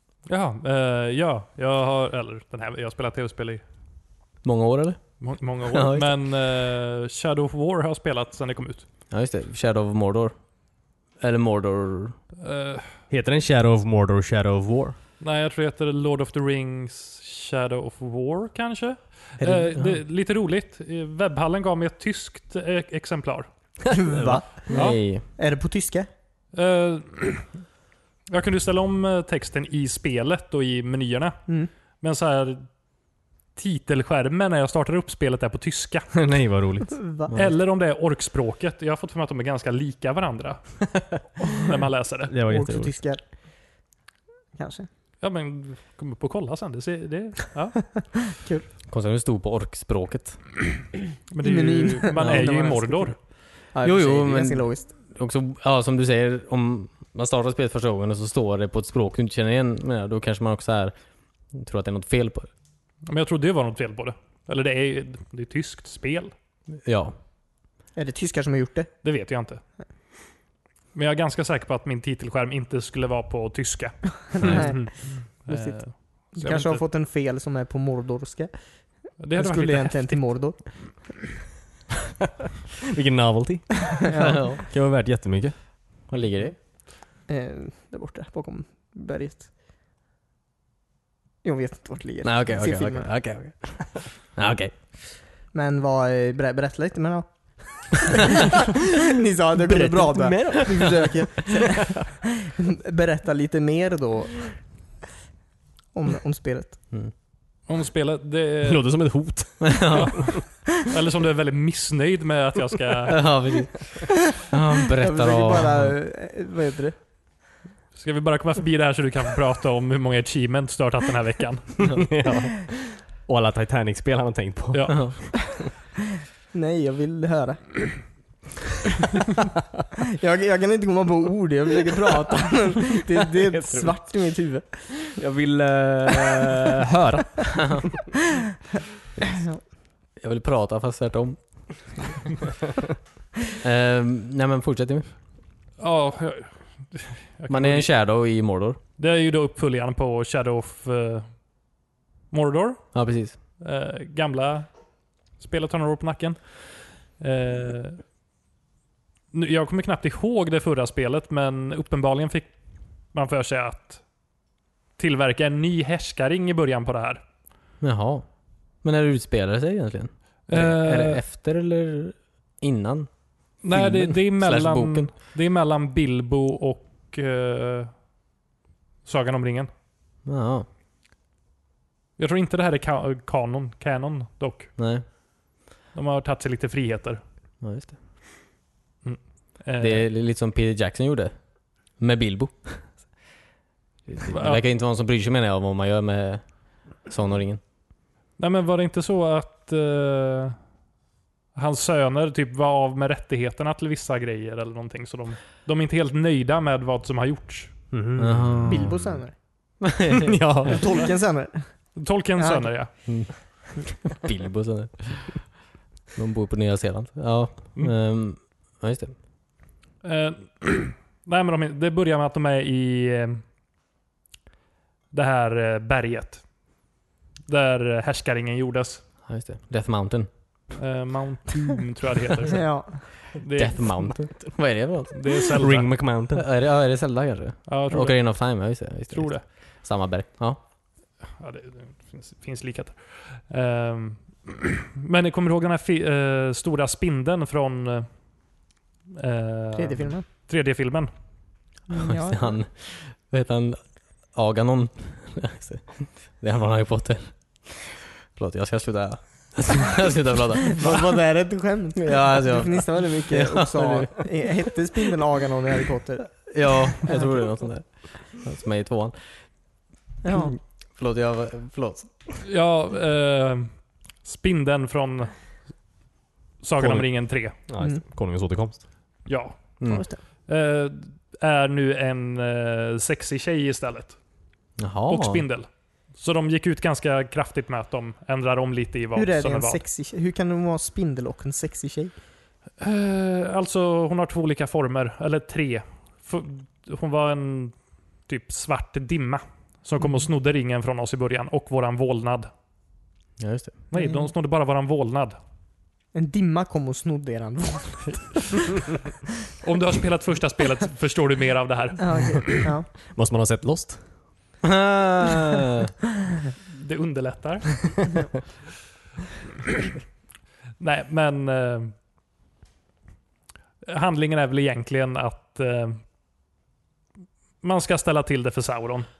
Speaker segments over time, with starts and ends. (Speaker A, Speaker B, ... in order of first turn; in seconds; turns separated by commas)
Speaker A: 0.2-3.6, Speaker B: 4.4-6.2, Speaker A: 5.2-8.8, Speaker B: 9.1-10.3, Speaker B: 11.1-12.2, Speaker A: 12.4-13.0, Speaker C: 13.1-15.0, Speaker A: 15.2-23.5, Speaker B: 19.4-19.9, Speaker D: 24.0-24.7, Speaker C: 24.1-24.8, Speaker B: 24.7-25.2, Speaker A: 24.7-25.0, Speaker D: 25.2-26.1, Speaker A: 26.5-27.5, Speaker A: 28.3-31.4, Speaker A: 32.0-32.7, Speaker A: 33.5-36.3, Speaker C: 36.1-37.0, Speaker D: 37.0-37.3, Speaker A: 37.3-42.3, Speaker C: 42.3-43.0, Speaker D: 42.4-43.2, Speaker D: 44.5-44.9, Speaker A: 45.2-48.2, Speaker B: 48.9-50.5, Speaker A: 51.3-53.1, Speaker D: 51.4-53.2, Speaker B: 52.2-52.5, Speaker D: 53.7-54.9, Speaker B: 53.8-60.9, Speaker B: 61.5-62.5, Speaker A: 63.1-66.3, Speaker B: 66.8-67.1, Speaker D: 67.9-68.9, Speaker A: 69.0-69.6, Speaker A: 70.9-76.8, Speaker D: 74.4-81.1, Speaker A: 79.2-80.4, Speaker C: 82.9-85.5, Speaker D: 84.0-84.4, Speaker B: 84.2-84.6, Speaker B: 86.1-86.6, Speaker D: 87.3-89.5, Speaker D: 91.4-93.1, Speaker B: 92.2-95.0, Speaker D: 95.5-98.1, Speaker D: 99.1-104.7, Speaker C: 99.6-102.0, Speaker D: 105.9-106.8, Speaker A: 107.7-108.8, Speaker C: 108.7-110.1, Speaker B: 109.6-110.4, Speaker A: 109.9-113.3, Speaker B: 113.1-115.9, Speaker D: 115.0-117.0, Speaker A: 117.9-121.8, Speaker C: 121.8-125.1, Speaker A: 124.7-125.1, Speaker D: 126.5-127.8, Speaker D: 130.2-135.1, Speaker C: 133.5-133.9, Speaker C: 135.1-137.9, Speaker B: 140.2-142.0, Speaker B: 143.6-145.1, Speaker A: 145.8-147.9, Speaker B: 147.5-148.8, Speaker A: 149.0-151.5, Speaker A: 152.3-152.9, Speaker B: 152.9-153.4, Speaker A: 153.6-154.8, Speaker A: 155.4-158.0, Speaker A: 159.3-162.5, Speaker A: 163.1-164.0, Speaker A: 165.0-167.2, Speaker B: 167.8-175.1, Speaker A: 170.5-171.2, Speaker A: 173.6-177.9, Speaker A: 179.0-179.7, Speaker B: 180.2-180.7, Speaker A: 182.2-184.7, Speaker B: 184.8-185.0, Speaker A: 185.9-187.2, Speaker B: 187.6-187.9, Speaker A: 189.0-190.1, Speaker B: 189.8-193.0, Speaker B: 194.1-197.6, Speaker A: 194.3-194.6, Speaker A: 198.4-200.6, Speaker A: 201.5-207.7, Speaker C: 207.9-208.9, Speaker B: 208.2-209.0, Speaker D: 208.7-209.3, Speaker B: 209.8-210.3, Speaker C: 210.2-210.9, Speaker D: 210.6-211.7, Speaker A: 211.9-212.9, Speaker D: 212.4-213.0, Speaker B: 213.0-215.6, Speaker B: 216.1-219.1, Speaker A: 220.0-223.4, Speaker A: 225.1-226.4, Speaker A: 227.5-229.0, Speaker B: 229.2-230.3, Speaker A: 230.8-232.7, Speaker D: 232.5-233.1, Speaker A: 233.3-234.2, Speaker B: 233.5-235.4, Speaker A: 235.1-235.9, Speaker C: 235.6-236.4, Speaker B: 236.3-240.6, Speaker A: 237.7-238.4, Speaker A: 239.1-239.4, Speaker A: 241.4-248.2, Speaker A: 249.2-251.1, Speaker D: 249.7-250.2, Speaker D: 251.9-252.6, Speaker B: 252.0-261.2, Speaker D: 260.8-267.5, Speaker B: 261.9-264.2, Speaker B: 266.5-269.5, Speaker D: 270.2-270.6, Speaker B: 270.3-272.3, Speaker A: 272.4-275.4, Speaker A: 276.6-277.6, Speaker C: 276.8-278.8, Speaker A: 279.2-279.8, Speaker B: 279.8-280.0, Speaker D: 279.9-280.2, Speaker A: 280.5-284.2, Speaker B: 284.8-285.4, Speaker A: 285.1-289.8, Speaker D: 289.1-292.1, Speaker A: 292.8-297.7, Speaker A: 298.2-302.5, Speaker B: 303.4-303.8, Speaker A: 303.9-305.4, Speaker D: 303.9-304.3, Speaker D: 306.1-308.8, Speaker A: 309.6-312.7, Speaker D: 312.0-312.9, Speaker C: 313.1-314.1, Speaker B: 314.6-315.9, Speaker A: 316.7-318.0, Speaker A: 320.8-321.9, Speaker A: 323.8-326.0, Speaker A: 327.6-329.1